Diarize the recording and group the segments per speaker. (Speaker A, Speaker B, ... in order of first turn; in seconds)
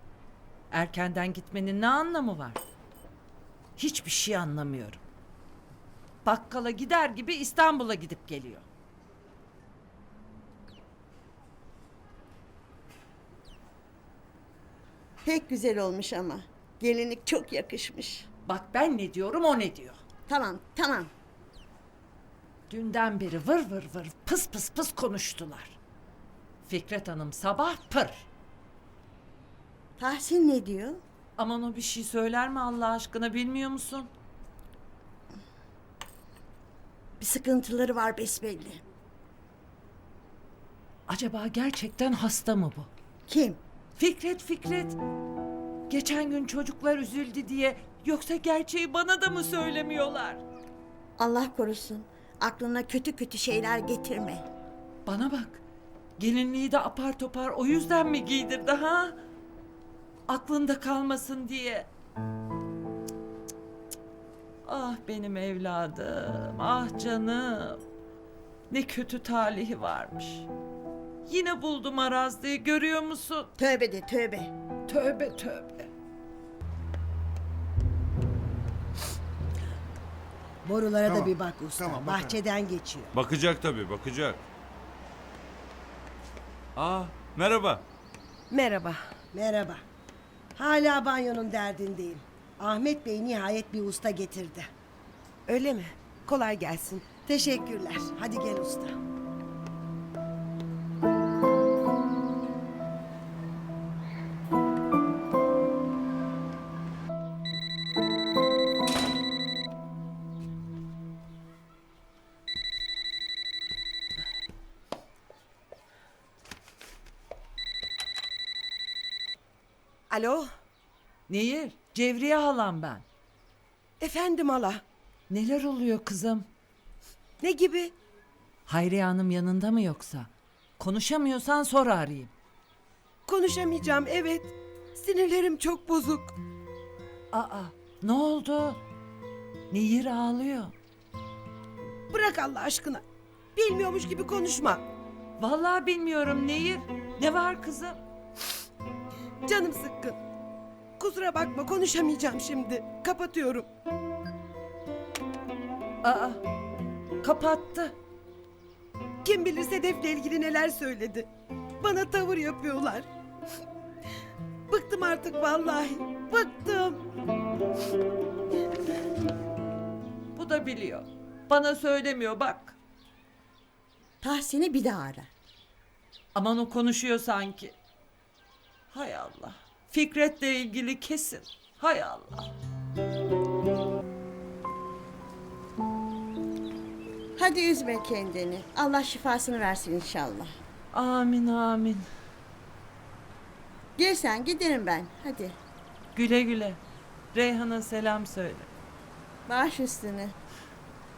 Speaker A: 0.7-2.6, 3.8-5.0, 6.2-8.6, 18.4-20.0, 22.7-25.8, 26.6-28.3, 31.4-34.1, 41.1-42.9, 44.0-45.0, 45.9-50.4, 55.0-55.6, 56.2-59.2, 60.3-61.9, 64.6-67.8, 68.7-70.5, 71.2-73.5, 74.9-75.9, 121.3-123.0, 125.3-126.5, 128.7-132.3, 137.3-138.8, 139.7-140.7, 145.4-148.0, 156.0-156.4, 157.2-157.9, 170.3-172.8, 176.3-177.7, 178.9-182.5, 190.9-192.1, 196.1-196.8, 197.3-198.7
Speaker B: 15.2-18.3, 20.3-21.1, 30.0-31.0, 37.2-38.8, 43.3-43.6, 51.2-54.5, 73.6-74.5, 174.2-175.3, 187.4-190.5, 194.0-195.6, 199.4-200.3
Speaker C: 80.6-83.1, 89.3-89.8, 90.5-94.7, 97.2-99.0
Speaker D: 83.1-84.5, 86.8-87.8
Speaker E: 88.5-89.1, 95.5-97.1, 120.1-120.5, 124.0-124.8, 127.4-127.9, 133.2-136.3, 142.1-143.0, 143.5-144.8, 149.4-150.2, 151.0-153.7, 159.2-161.3, 161.8-163.1, 164.7-167.0